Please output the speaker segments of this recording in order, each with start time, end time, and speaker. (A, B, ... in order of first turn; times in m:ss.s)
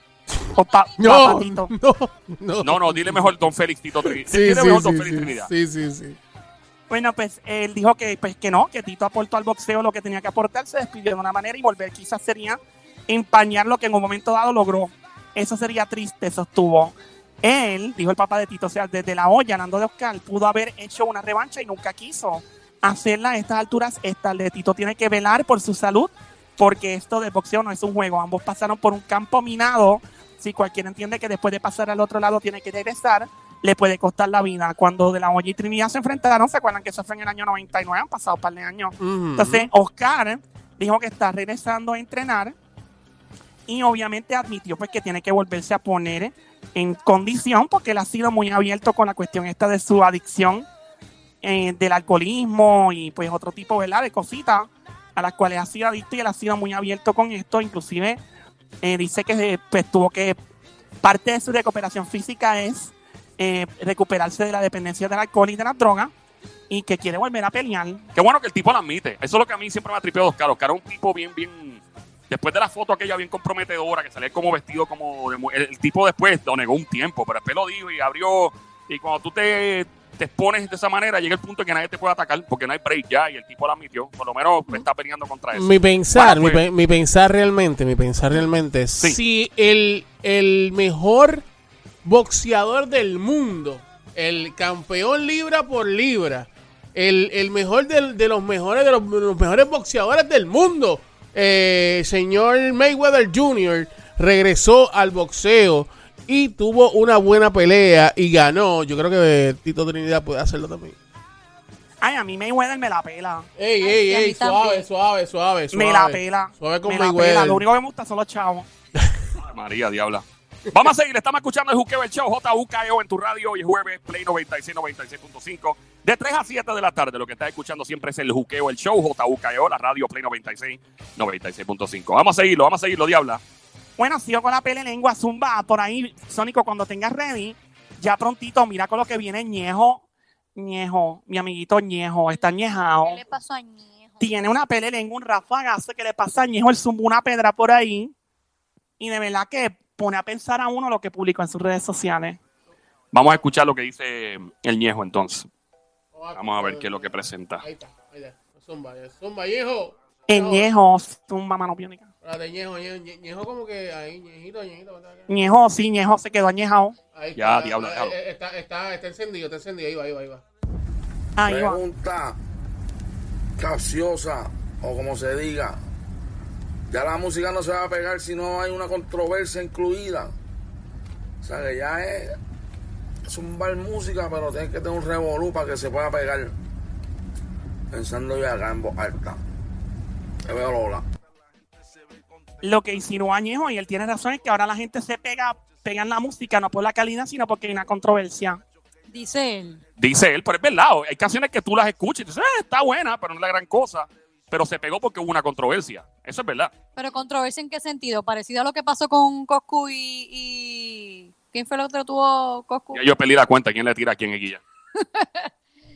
0:00.5-0:01.7 A
0:01.0-0:03.4 B
0:02.6-0:05.5 C
0:04.0-0:06.2 B
0:06.9-0:42.6 A
0:39.0-0:39.7 B
0:43.7-0:50.7 A
0:51.4-0:58.2 A
0:58.8-1:00.4 A
1:01.0-1:06.1 A
1:06.7-1:08.1 A
1:08.2-1:26.6 C
1:25.5-1:31.5 B
1:32.0-1:51.0 B
1:52.0-1:53.5 A
1:53.6-1:57.6 B
1:53.8-1:54.9 D
1:55.7-1:58.7 A
1:59.4-2:13.4 C
2:14.0-2:20.0 A
2:20.6-2:23.2 A
2:23.0-2:24.4 D
2:24.2-2:28.1 A
2:29.0-2:32.4 A
2:33.1-2:35.5 C
2:36.1-2:40.7 B
2:36.4-2:37.6 C
2:40.3-2:42.1 A
2:42.2-2:45.4 B
2:45.3-2:47.0 A
2:47.1-2:50.4 B
2:47.4-2:48.2 C
2:51.4-2:51.8 A
2:51.4-2:52.4 E
2:53.6-2:55.8 E
2:56.9-3:00.3 E
3:01.4-3:02.4 E
3:03.3-3:06.5 E
3:07.9-3:09.4 E
3:10.4-3:11.0 E
3:12.6-3:18.6 A
3:19.1-3:19.8 D
3:20.0-3:26.7 C
3:27.0-3:33.0 D
3:32.9-3:34.6 C
3:35.0-3:35.5 D